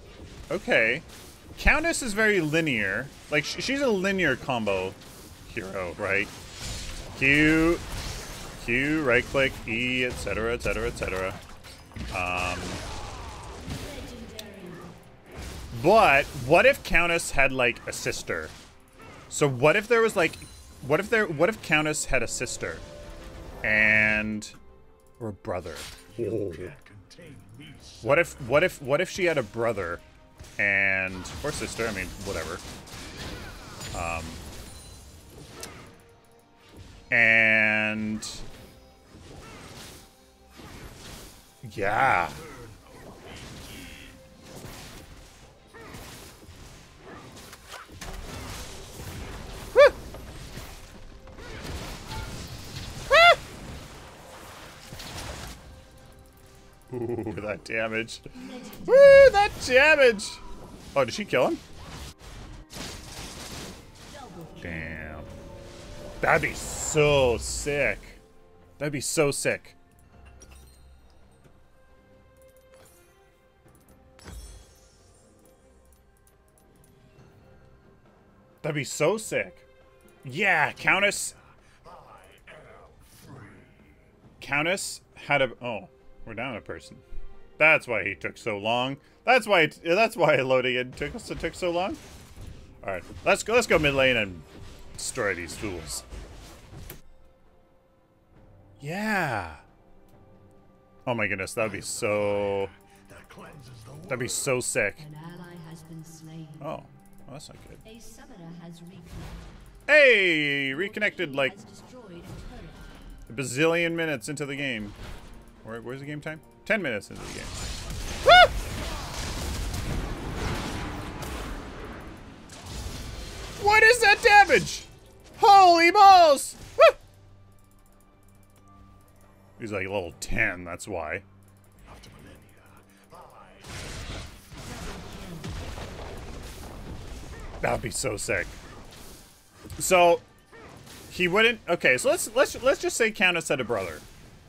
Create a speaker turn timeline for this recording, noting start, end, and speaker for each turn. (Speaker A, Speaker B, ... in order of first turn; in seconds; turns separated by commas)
Speaker A: 0.5-6.3, Speaker A: 7.1-7.8, Speaker A: 8.6-11.4, Speaker A: 12.1-12.8, Speaker B: 13.6-14.9, Speaker A: 15.7-18.6, Speaker A: 19.3-22.9, Speaker A: 23.6-24.6, Speaker A: 25.2-26.8, Speaker A: 28.0-30.0, Speaker A: 30.6-32.6, Speaker A: 33.9-34.4, Speaker A: 37.1-38.4, Speaker A: 41.6-42.5, Speaker A: 56.9-60.4, Speaker B: 58.3-59.4, Speaker A: 60.9-61.6, Speaker B: 64.1-65.0, Speaker A: 64.6-65.3, Speaker A: 66.2-68.2, Speaker A: 68.8-69.8, Speaker A: 78.6-79.7, Speaker A: 80.2-81.4, Speaker A: 84.4-87.0, Speaker A: 87.6-92.0, Speaker A: 92.8-96.1, Speaker A: 98.8-99.6, Speaker A: 101.1-102.7, Speaker A: 104.0-105.1, Speaker B: 105.0-106.7, Speaker A: 106.6-107.8, Speaker B: 107.8-109.5, Speaker A: 109.9-111.5, Speaker B: 110.7-112.9, Speaker A: 113.3-115.0, Speaker A: 115.6-117.7, Speaker A: 118.2-118.5, Speaker A: 123.6-127.0, Speaker A: 129.6-131.2, Speaker B: 134.6-135.6, Speaker A: 137.6-138.6, Speaker A: 139.8-140.2, Speaker A: 141.1-144.1